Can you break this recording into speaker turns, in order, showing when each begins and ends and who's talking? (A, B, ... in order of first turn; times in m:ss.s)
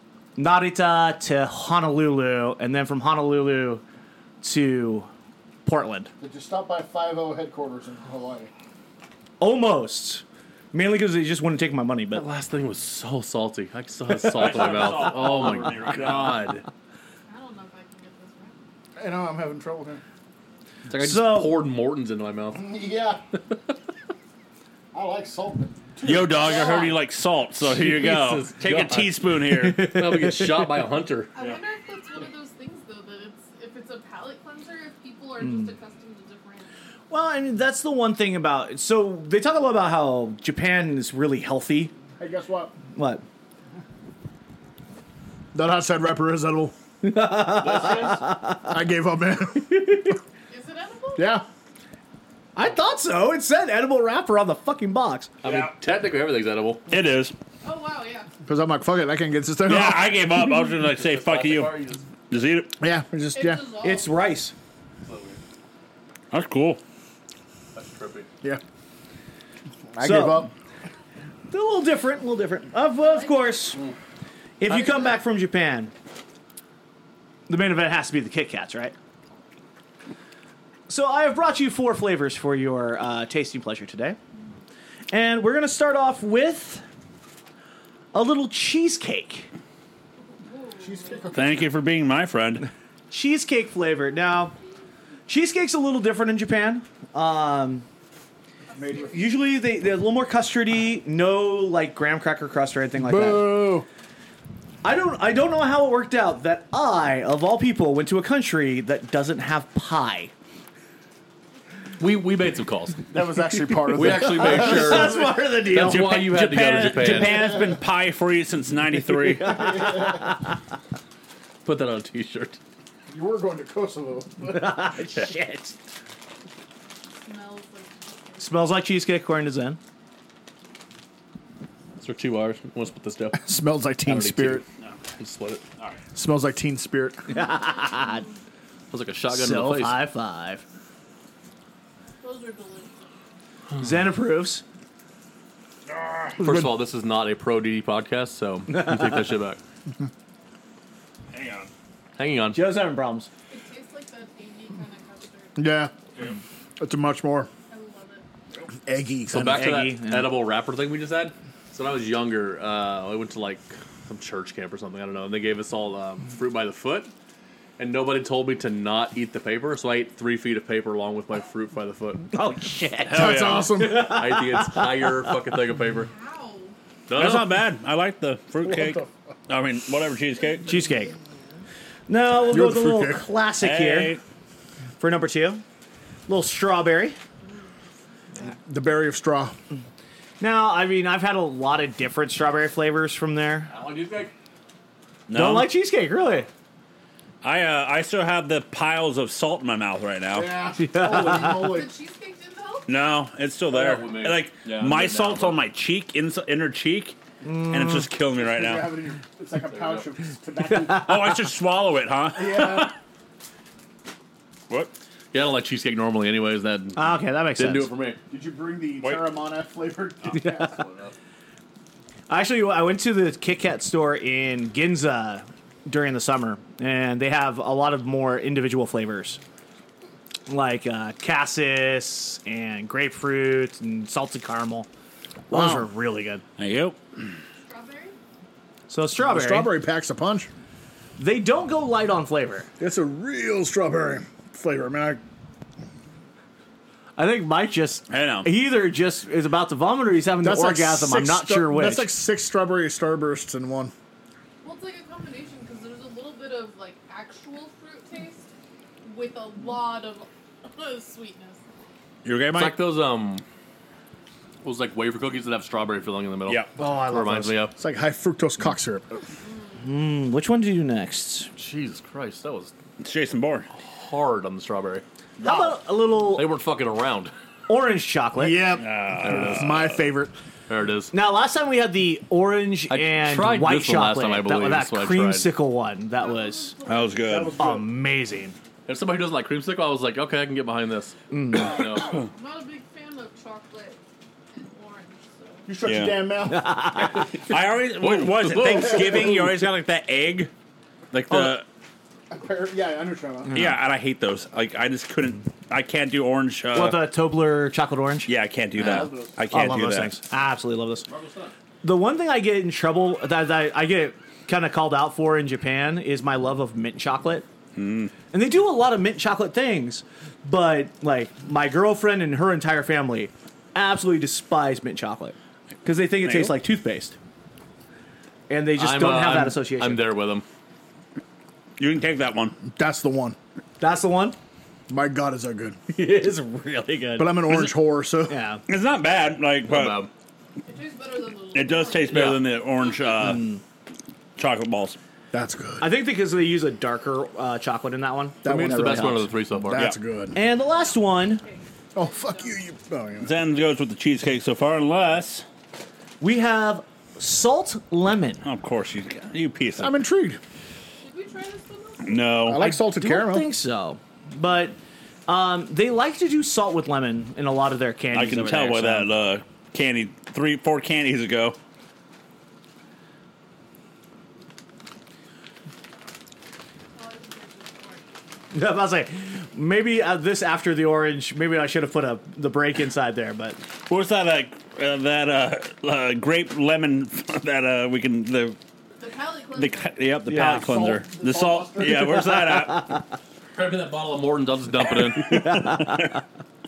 0:00.4-0:03.8 A
0:04.4-0:05.1 A
0:05.6-0:06.1 A
0:06.2-0:08.5 B
0:09.4-0:12.2 A
0:12.1-0:16.6 C
0:14.1-0:14.5 A
0:14.2-0:16.4 D
0:17.3-0:18.6 E
0:19.0-0:20.0 B
0:20.9-0:22.7 C
0:21.0-0:21.6 A
0:22.5-0:23.2 B
0:24.9-0:26.7 B
0:26.0-0:29.8 D
0:26.4-0:26.9 E
0:27.6-0:31.3 C
0:29.5-0:30.8 A
0:31.3-0:36.7 E
0:35.4-0:35.7 A
0:37.1-0:41.9 A
0:42.2-0:42.7 B
0:42.9-0:43.2 A
0:45.5-0:46.7 B
0:47.0-0:48.6 A
0:47.5-0:48.2 C
0:48.6-0:49.7 B
0:49.7-0:50.1 A
0:50.5-0:51.4 E
0:51.2-0:51.4 B
0:52.5-0:55.3 A
0:55.4-0:56.8 C
0:55.4-0:55.7 D
0:56.9-0:57.3 D
0:57.6-0:58.3 E
0:58.4-1:00.2 B
0:59.6-1:02.7 D
1:00.9-1:02.1 C
1:02.8-1:03.6 B
1:03.4-1:04.2 E
1:03.8-1:04.5 A
1:05.0-1:05.4 C
1:06.3-1:06.8 D
1:07.7-1:08.3 C
1:09.9-1:10.5 B
1:10.0-1:10.5 A
1:11.5-1:13.8 A
1:13.0-1:13.8 E
1:14.6-1:15.9 A
1:17.5-1:18.9 A
1:20.9-1:24.2 A
1:25.1-1:26.8 A
1:28.1-1:29.5 A
1:30.2-1:31.3 E
1:30.8-1:31.7 B
1:31.3-1:32.6 D
1:33.1-1:34.5 A
1:35.3-1:37.8 A
1:38.7-1:39.5 E
1:38.7-1:39.2 B
1:39.1-1:43.6 A
1:43.0-1:43.9 B
1:44.8-1:50.3 A
1:52.0-1:53.0 C
1:53.1-1:55.1 B
1:53.8-1:57.5 C
1:54.0-1:57.7 A
1:55.8-1:59.8 D
1:59.3-2:00.3 A
1:59.5-2:00.1 B
2:01.6-2:02.6 C
2:03.1-2:04.7 B
2:04.5-2:05.8 A
2:07.2-2:08.6 E
2:08.4-2:09.8 A
2:12.0-2:13.4 C
2:13.4-2:14.6 B
2:14.0-2:14.6 C
2:15.2-2:15.6 C
2:16.1-2:17.2 B
2:17.3-2:18.2 A
2:17.3-2:18.3 E
2:18.9-2:20.0 C
2:19.3-2:20.6 A
2:22.2-2:23.1 E
2:23.8-2:24.6 A
2:25.9-2:26.4 D
2:26.4-2:29.6 C
2:26.4-2:26.7 B
2:28.7-2:29.0 A
2:31.3-2:31.7 D
2:32.2-2:32.6 C
2:32.5-2:33.3 A
2:33.5-2:35.6 E
2:35.6-2:35.9 B
2:36.8-2:37.5 B
2:37.7-2:38.2 E
2:38.8-2:39.7 B
2:39.3-2:47.1 C
2:39.4-2:40.3 A
2:47.8-2:52.3 C
2:52.3-2:55.3 A
2:53.0-2:53.7 D
2:53.1-2:54.1 B
2:54.0-2:56.1 C
2:56.0-2:56.7 E
2:57.1-2:57.6 C
2:57.2-3:00.8 D
2:58.6-2:59.1 B
3:00.6-3:01.1 A
3:02.1-3:04.2 A
3:02.4-3:03.3 B
3:03.6-3:04.2 D
3:05.0-3:05.6 A
3:06.3-3:07.2 A
3:08.4-3:09.5 B
3:10.4-3:13.7 A
3:13.7-3:14.3 C
3:15.3-3:15.7 D
3:15.3-3:16.5 A
3:17.4-3:20.5 D
3:20.3-3:21.9 B
3:20.8-3:21.8 A
3:21.4-3:22.9 E
3:22.9-3:27.2 D
3:23.7-3:25.6 C
3:27.4-3:28.1 A
3:27.7-3:28.9 D
3:28.3-3:31.3 B
3:29.7-3:30.1 C
3:30.7-3:31.3 A
3:31.0-3:32.9 D
3:32.3-3:32.9 B
3:35.3-3:38.2 C
3:37.0-3:37.9 A
3:38.3-3:40.8 B
3:40.3-3:40.8 A
3:40.7-3:41.1 C
3:42.3-3:49.4 A
3:50.5-3:54.9 A
3:55.5-3:56.4 A
3:55.5-3:55.8 B
3:56.6-3:57.0 D
3:57.6-3:58.2 E
3:58.9-3:59.7 A
3:59.2-4:00.5 B
4:01.2-4:02.7 A
4:02.8-4:05.2 B
4:07.2-4:12.1 A
4:08.1-4:08.5 D
4:10.4-4:13.9 B
4:14.6-4:18.4 E
4:19.0-4:21.6 E
4:22.2-4:22.8 D
4:22.5-4:23.4 C
4:24.6-4:27.7 C
4:26.8-4:27.6 A
4:27.8-4:29.1 B
4:29.8-4:31.5 A
4:31.5-4:32.7 C
4:33.0-4:33.7 D
4:33.8-4:35.0 C
4:35.4-4:36.5 A
4:36.3-4:37.3 C
4:37.7-4:38.6 A
4:38.4-4:40.3 B
4:38.8-4:39.9 D
4:39.2-4:39.8 C
4:40.7-4:41.1 C
4:41.1-4:46.7 A
4:42.9-4:45.5 C
4:46.1-4:47.4 E
4:46.8-4:47.6 D
4:47.2-4:47.9 B
4:47.6-4:48.6 A
4:48.9-4:52.2 C
4:51.3-4:51.8 A
4:51.8-4:54.0 E
4:54.5-4:55.7 E
4:55.7-4:56.7 B
4:55.8-4:56.2 D
4:56.5-4:57.3 A
4:57.4-5:00.5 D
4:58.0-4:59.4 C
4:58.6-4:59.5 B
5:01.1-5:01.6 D
5:01.3-5:01.6 C
5:02.3-5:03.6 B
5:03.5-5:07.0 D
5:06.7-5:11.1 A
5:08.3-5:10.1 D
5:08.9-5:09.3 B
5:11.1-5:11.5 C
5:11.8-5:17.4 A
5:17.8-5:18.1 D
5:18.3-5:27.1 A
5:26.2-5:26.5 D
5:28.5-5:30.0 A
5:28.8-5:30.4 C
5:31.8-5:32.6 D
5:32.6-5:33.4 B
5:33.8-5:34.4 A
5:34.9-5:35.8 B
5:35.9-5:37.7 A
5:37.2-5:38.4 B
5:38.3-5:38.6 A
5:38.7-5:40.0 D
5:39.7-5:40.1 C
5:40.6-5:42.4 E
5:41.5-5:43.6 D
5:42.1-5:42.4 C
5:43.3-5:43.6 A
5:44.4-5:45.0 D
5:45.3-5:45.9 B
5:45.8-5:49.3 A
5:48.4-5:50.4 B
5:48.4-5:49.8 C
5:50.3-5:51.4 A
5:50.5-5:52.6 E
5:51.9-5:53.3 B
5:53.2-5:55.4 D
5:56.2-5:58.4 A
5:58.4-5:59.9 D
5:59.8-6:00.4 B
6:01.0-6:02.4 E
6:02.0-6:02.6 D
6:02.4-6:03.5 B
6:02.6-6:09.1 A
6:08.1-6:11.6 D
6:16.9-6:18.2 E
6:18.5-6:23.6 A
6:23.8-6:28.6 D
6:29.0-6:30.0 E
6:29.6-6:33.0 D
6:30.3-6:31.0 A
6:30.6-6:32.3 B
6:33.5-6:35.4 C
6:35.1-6:36.2 D